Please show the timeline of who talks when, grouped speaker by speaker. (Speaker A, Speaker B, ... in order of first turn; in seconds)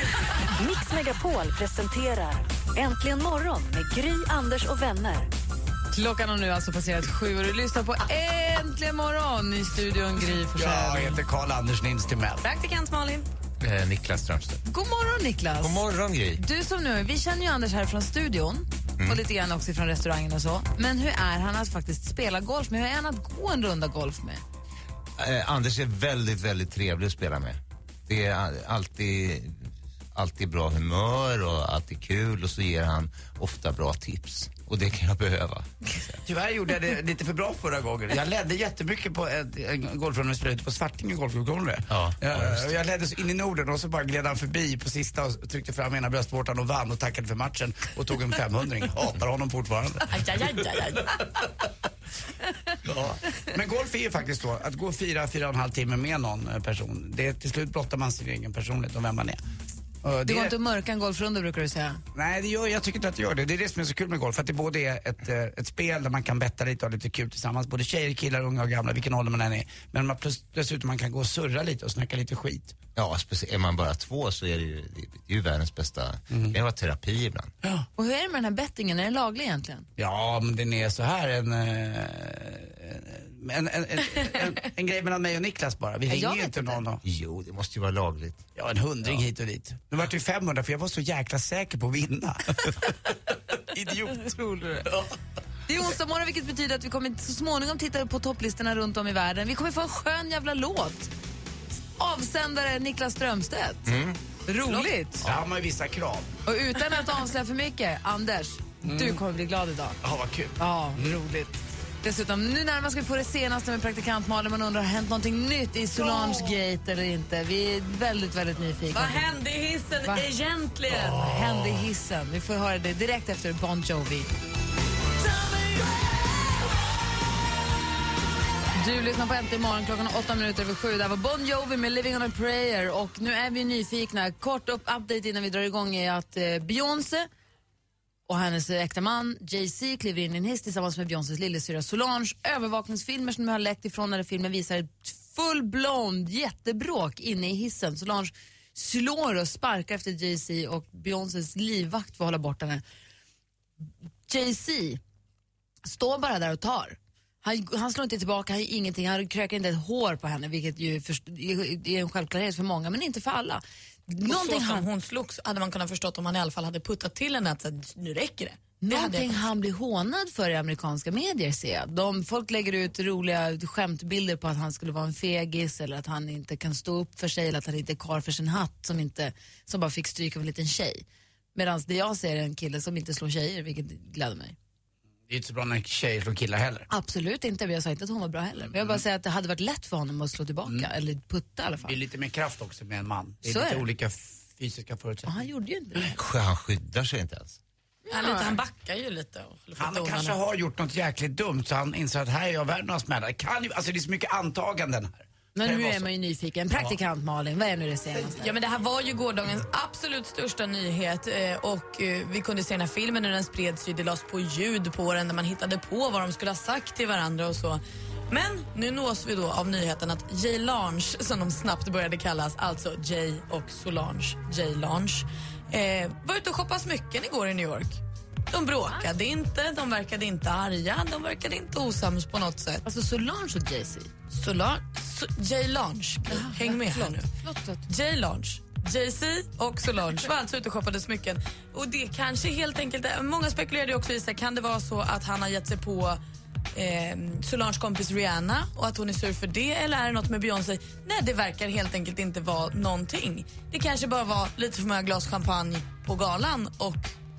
Speaker A: 0.6-5.3
Speaker B: 5.9-11.2, 14.7-15.8, 16.4-24.4, 60.2-62.0, 78.0-79.9, 86.1-86.8, 94.1-94.9, 95.7-101.1, 102.0-103.9, 104.5-105.3, 106.5-110.0, 110.6-119.2, 121.1-124.3, 128.8-137.3, 138.3-152.8, 154.3-155.0, 155.8-164.8, 168.8-184.6, 186.9-191.9, 193.4-193.8, 195.2-196.1, 198.1-198.6, 205.5-208.5, 232.8-234.1, 236.3-237.8
Speaker C: 10.5-12.4, 36.2-50.1, 52.9-59.4, 60.0-60.6, 62.1-72.8, 76.3-76.5, 80.0-87.0, 88.5-92.9, 93.7-94.3, 105.2-106.3, 108.8-109.2, 110.0-111.2, 185.3-186.9, 191.8-195.4, 199.8-206.1
Speaker D: 12.4-13.3, 50.1-51.3, 118.9-121.3, 164.2-169.4, 198.1-200.4, 208.4-232.8, 234.3-237.3, 237.9-246.2, 246.7-257.1
Speaker E: 13.6-14.6, 15.6-16.4, 25.2-36.2, 41.9-42.7, 72.9-77.5, 87.0-88.4, 103.9-104.2, 196.0-197.6